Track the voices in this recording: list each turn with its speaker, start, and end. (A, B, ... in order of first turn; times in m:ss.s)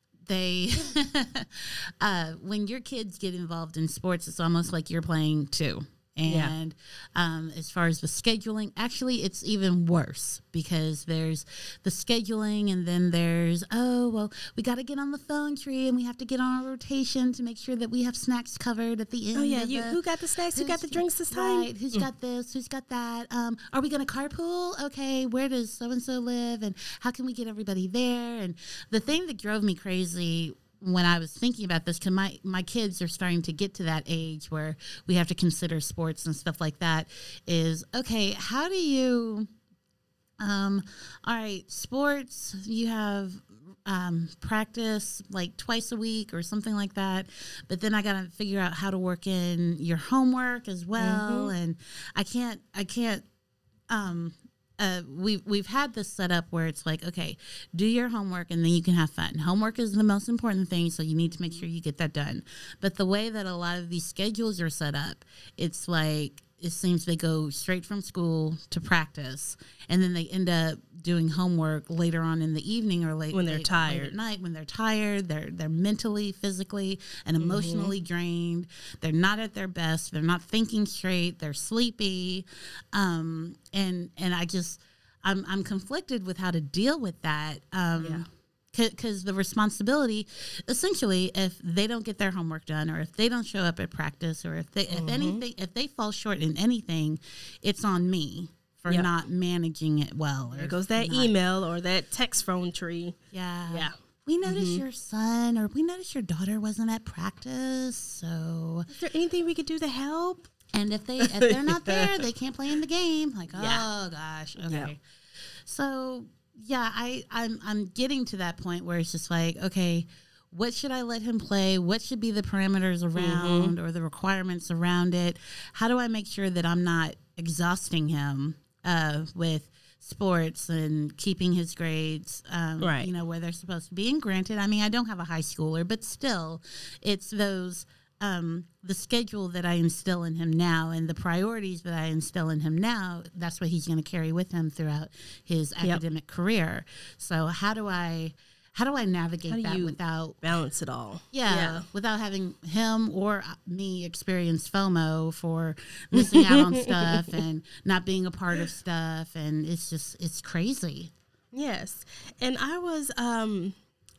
0:00.3-0:20.0 A
0:06.3-0:06.5 B
0:19.4-0:22.1 B
0:20.5-0:39.5 A
0:40.4-0:53.2 A
0:51.0-0:51.6 B
0:53.9-1:41.3 A
1:01.3-1:01.6 B
1:13.3-1:14.2 B
1:17.4-1:18.0 B
1:28.0-1:28.3 B
1:34.9-1:35.4 B
1:40.5-1:44.8 B
1:43.3-1:48.9 A
1:48.9-1:50.5 B
1:50.7-1:55.0 A
1:51.2-1:52.2 B
1:53.5-1:53.9 B
1:54.6-1:54.9 B
1:55.7-2:30.4 A
2:03.2-2:03.8 B
2:12.8-2:13.1 B
2:29.5-2:31.9 B
2:31.3-2:41.1 A
2:36.1-2:37.4 B
2:41.5-2:43.8 B